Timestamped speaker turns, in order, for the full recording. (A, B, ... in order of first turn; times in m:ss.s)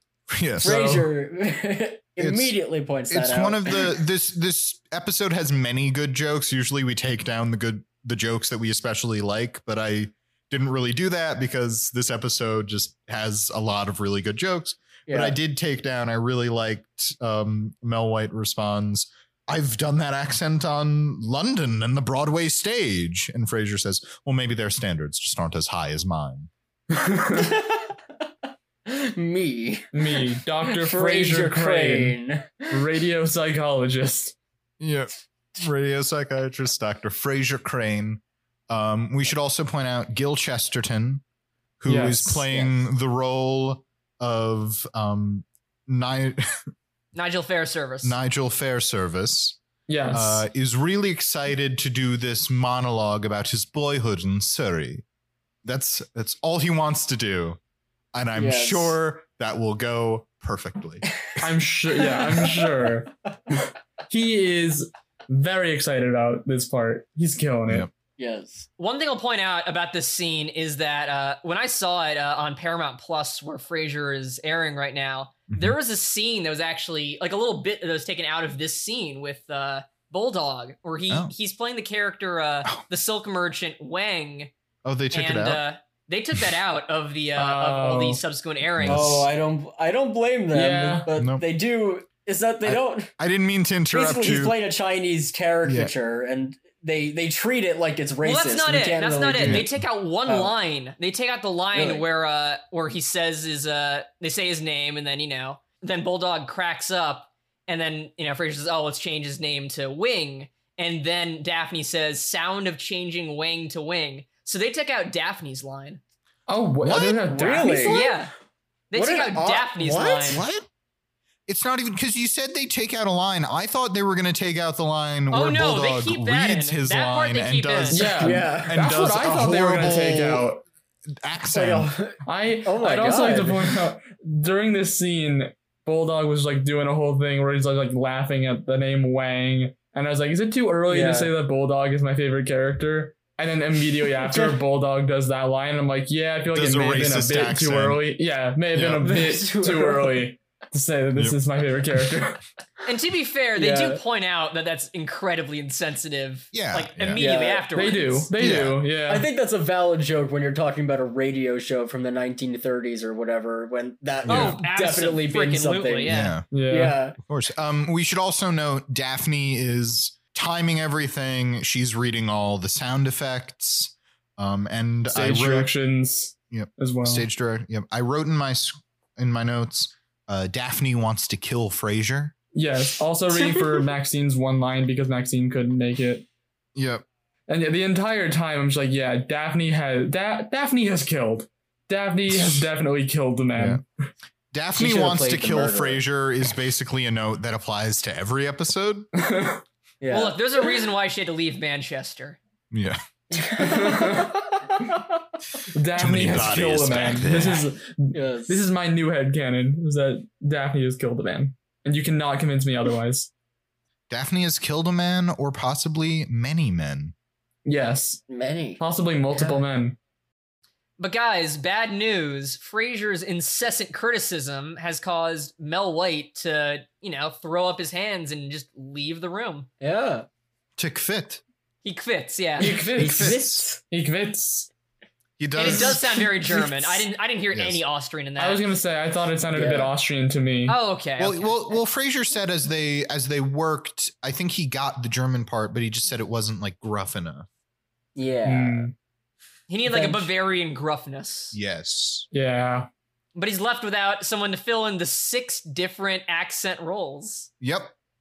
0:00.3-0:00.8 A
0:00.6-0:01.1 B
0:00.6-0:03.9 C
0:02.2-0:02.5 A
0:03.1-0:26.5 A
0:15.1-0:15.4 C
0:26.9-0:27.5 B
0:27.3-0:28.0 C
0:28.8-0:32.8 C
0:29.9-0:32.2 B
0:32.7-0:34.4 B
0:34.8-0:41.2 A
0:41.8-0:46.5 A
0:41.8-0:42.5 B
0:47.1-0:48.2 D
0:48.0-0:49.6 A
0:49.9-0:50.4 B
0:50.1-0:55.0 A
0:55.6-0:57.6 A
0:58.1-1:01.1 A
0:58.4-0:59.0 C
1:01.4-1:07.9 B
1:02.0-1:03.0 C
1:08.2-1:08.7 C
1:08.8-1:24.5 D
1:15.5-1:15.8 A
1:24.8-1:25.6 A
1:25.1-1:29.2 D
1:27.4-1:28.2 B
1:28.8-1:29.2 A
1:28.8-1:33.1 C
1:30.5-1:31.1 B
1:31.1-1:31.4 A
1:32.6-1:34.6 A
1:33.9-1:39.7 C
1:35.6-1:35.9 A
1:38.2-1:56.0 D
1:39.4-1:39.7 A
1:40.2-1:40.5 C
1:41.7-1:42.0 C
1:56.5-1:58.1 B
1:56.8-1:57.2 A
1:56.9-1:58.2 C
1:57.6-1:58.3 D
1:58.9-2:00.4 D
1:58.9-2:00.4 C
2:00.3-2:00.7 A
2:01.5-2:10.5 A
2:05.3-2:08.0 D
2:07.9-2:10.6 B
2:08.1-2:08.8 C
2:11.2-2:11.9 A
2:11.5-2:13.8 C
2:12.2-2:32.4 B
2:20.9-2:21.3 C
2:24.2-2:24.6 C
2:26.5-2:28.0 A
2:28.7-2:29.1 A
2:29.0-2:30.3 C
2:32.8-2:38.2 D
2:33.6-2:34.0 C
2:36.5-2:37.3 A
2:37.2-2:38.2 C
2:37.7-2:39.3 B
2:38.4-2:38.8 A
2:39.1-2:47.2 C
2:44.2-2:44.6 A
2:44.3-2:46.3 D
2:46.0-2:46.5 A
2:46.5-2:47.0 B
2:47.2-2:55.7 A
2:55.1-2:57.2 B
2:56.5-3:02.3 A
3:02.5-3:06.3 B
3:03.3-3:03.6 C
3:06.7-3:07.0 A
3:07.5-3:13.9 B
3:12.3-3:12.7 A
3:13.5-3:13.8 A
3:14.5-3:19.1 A
3:14.8-3:16.0 C
3:19.2-3:19.6 B
3:20.0-3:20.4 C
3:20.1-3:22.4 D
3:22.7-3:23.0 A
3:23.3-3:25.0 C
3:23.6-3:24.3 B
3:25.7-3:33.3 B
3:25.9-3:27.6 A
3:28.1-3:28.6 C
3:34.1-3:37.1 A
3:37.6-3:38.2 B
3:38.3-3:38.8 C
3:38.8-3:40.0 B
3:39.3-3:39.6 C
3:41.0-3:49.7 D
3:49.8-3:50.2 C
3:50.8-3:51.4 A
3:51.8-3:52.8 D
3:52.6-3:54.7 B
3:52.7-3:53.8 C
3:53.0-3:53.6 A
3:55.4-3:56.7 A
3:55.5-3:58.6 D
3:57.5-3:57.8 A
3:58.4-4:00.8 B
3:59.5-3:59.9 C
4:00.7-4:01.5 D
4:01.2-4:07.5 A
4:08.2-4:08.9 C
4:08.4-4:08.9 B
4:09.7-4:11.6 D
4:09.8-4:10.3 C
4:11.5-4:12.3 A
4:12.3-4:12.9 B
4:13.3-4:17.5 D
4:17.6-4:17.9 A